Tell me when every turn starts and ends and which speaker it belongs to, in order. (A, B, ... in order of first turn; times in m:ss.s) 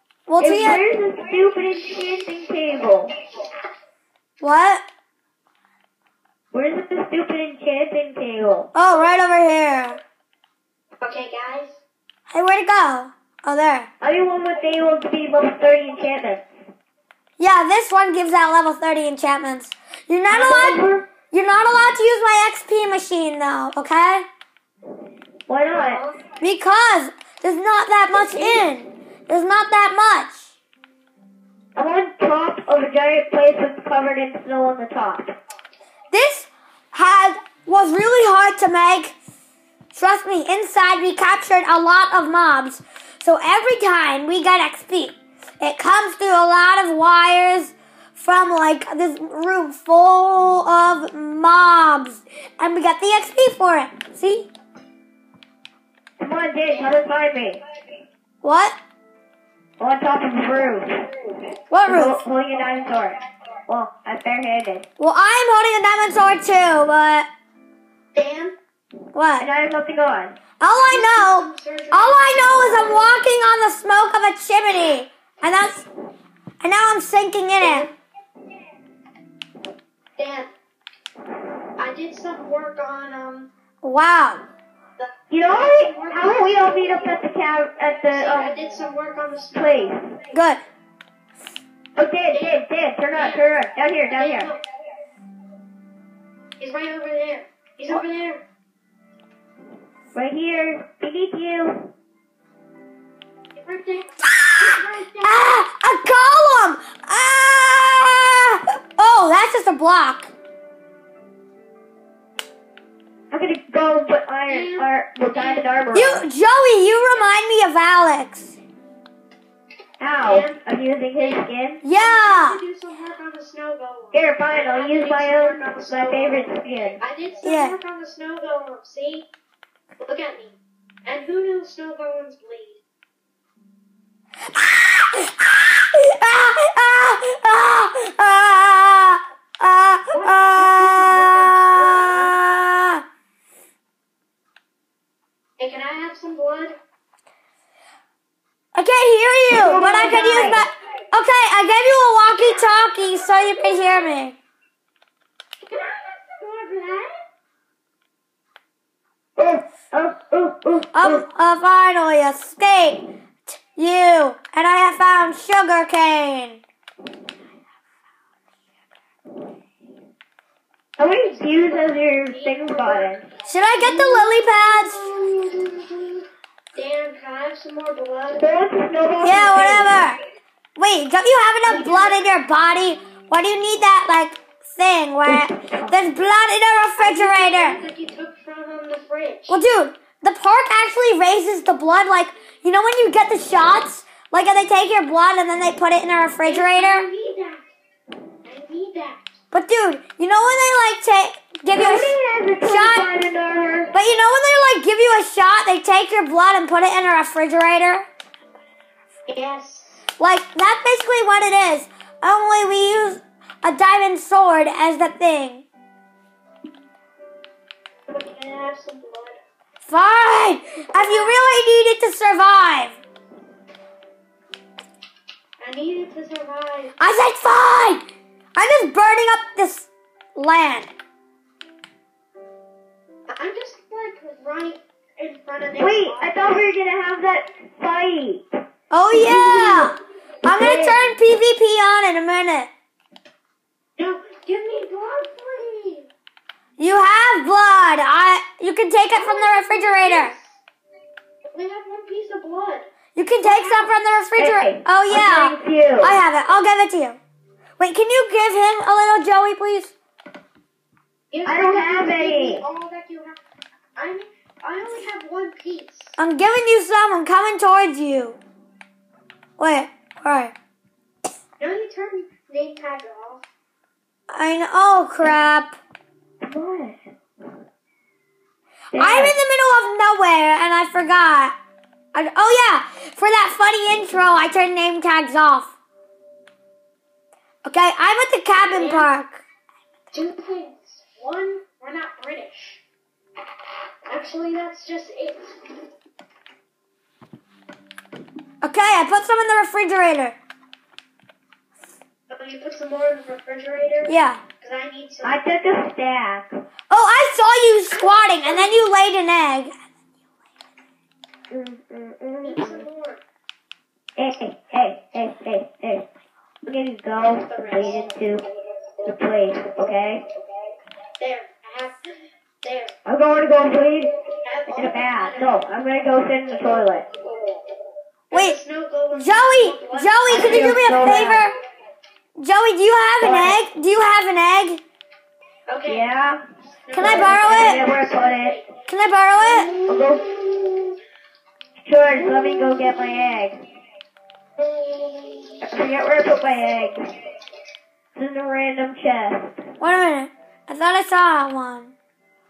0:00.3-0:00.8 A
0:00.4-0:03.1 B
0:04.4-0:04.8 A
0:06.5-0:08.7 B
0:08.7-0:10.0 A
0:11.0-0:11.8 C
0:12.3-0:13.9 A
0:14.0-0:16.5 B
0:17.4-0:24.2 A
0:20.3-0:21.0 B
0:25.5-0:26.0 B
0:25.7-0:26.1 C
0:26.4-0:30.4 A
0:28.2-0:28.6 B
0:31.7-0:35.3 B
0:36.1-0:39.1 A
0:39.9-0:54.5 A
0:56.2-0:57.6 B
0:56.7-0:56.9 C
0:58.4-0:58.8 A
0:59.8-1:01.1 B
1:01.7-1:02.2 A
1:01.9-1:04.8 B
1:05.0-1:07.3 A
1:08.1-1:08.6 C
1:09.1-1:09.5 A
1:09.4-1:10.4 B
1:10.6-1:15.8 A
1:10.7-1:13.2 C
1:16.6-1:17.9 A
1:17.6-1:17.9 C
1:20.2-1:20.5 C
1:21.8-1:23.5 C
1:23.8-1:24.4 A
1:25.0-1:27.2 C
1:25.3-1:28.6 B
1:28.1-1:30.0 C
1:29.5-1:30.1 B
1:30.3-1:30.6 A
1:32.0-1:34.5 B
1:32.3-1:33.5 C
1:34.1-1:34.6 C
1:36.6-1:38.4 C
1:40.1-1:41.9 B
1:43.5-1:45.7 C
1:44.2-1:44.7 A
1:45.2-1:50.3 A
1:53.3-1:56.2 B
1:54.5-1:55.7 C
1:55.9-1:58.6 A
2:00.0-2:01.8 B
2:00.2-2:00.6 C
2:01.2-2:09.3 C
2:01.8-2:02.6 A
2:04.1-2:07.0 B
2:07.4-2:07.7 A
2:10.0-2:10.5 C
2:11.0-2:12.8 C
2:14.6-2:23.0 A
2:20.1-2:22.4 C
2:25.6-2:26.7 C
2:28.7-2:34.4 A
2:29.5-2:30.6 B
2:35.7-2:37.2 C
2:39.4-2:41.2 B
2:40.9-2:46.6 A
2:51.0-2:53.2 B
2:51.1-2:56.2 C
2:53.4-2:55.1 A
2:56.7-2:58.5 C
2:58.4-2:59.9 B
2:59.2-3:00.2 A
3:00.8-3:07.8 A
3:01.6-3:02.2 C
3:05.2-3:05.9 B
3:07.0-3:09.6 C
3:09.5-3:17.0 A
3:16.4-3:17.6 C
3:18.4-3:19.2 C
3:19.5-3:23.1 A
3:21.7-3:23.9 B
3:23.9-3:28.0 A
3:29.3-3:30.0 C
3:30.2-3:35.6 A
3:38.1-3:39.4 C
3:39.8-3:43.0 A
3:40.9-3:41.3 C
3:45.6-3:47.0 C
3:47.0-3:50.9 A
3:53.3-3:56.7 C
3:55.8-3:58.6 B
3:58.9-4:02.7 A
3:59.3-3:59.9 C
4:00.4-4:01.0 B
4:04.0-4:06.1 C
4:06.8-4:10.3 A
4:09.1-4:10.6 C
4:11.5-4:12.9 C
4:13.1-4:17.2 A
4:13.4-4:13.9 C
4:14.4-4:16.2 B
4:17.8-4:19.9 A
4:21.3-4:23.4 C
4:21.4-4:22.6 B
4:24.0-4:26.2 C
4:26.2-4:28.4 A
4:29.6-4:30.5 A
4:31.6-4:33.4 C
4:34.3-4:35.8 A
4:36.4-4:37.1 B
4:38.9-4:39.3 B
4:38.9-4:41.5 A
4:42.1-4:45.7 A
4:47.6-4:49.4 A
4:48.6-4:49.1 C
4:50.1-4:52.8 C
4:54.1-4:55.8 C
4:58.6-5:00.4 A
5:02.3-5:05.4 C
5:04.1-5:04.4 A
5:05.2-5:06.6 B
5:06.9-5:09.8 A
5:07.9-5:08.8 C
5:11.5-5:12.8 B
5:12.4-5:13.2 C
5:14.2-5:16.1 B
5:16.6-5:18.4 B
5:17.3-5:18.1 C
5:19.0-5:20.2 B
5:21.2-5:22.1 C
5:22.6-5:22.9 C
5:23.0-5:24.1 B
5:24.4-5:25.6 C
5:24.7-5:27.0 B
5:26.5-5:27.6 C
5:28.3-5:31.3 C
5:28.3-5:28.6 A
5:29.1-5:31.5 A
5:30.3-5:31.4 B
5:32.4-5:34.8 A
5:33.2-5:33.6 B
5:35.7-5:36.1 C
5:35.8-5:36.4 B
5:36.9-5:38.7 C
5:36.9-5:37.8 A
5:37.0-5:38.6 B
5:38.9-5:39.7 A
5:39.4-5:40.9 C
5:39.9-5:40.3 B
5:41.8-5:43.6 B
5:42.2-5:43.2 C
5:44.6-5:45.8 C
5:45.6-5:47.0 B
5:48.1-5:49.6 B
5:49.8-5:51.9 A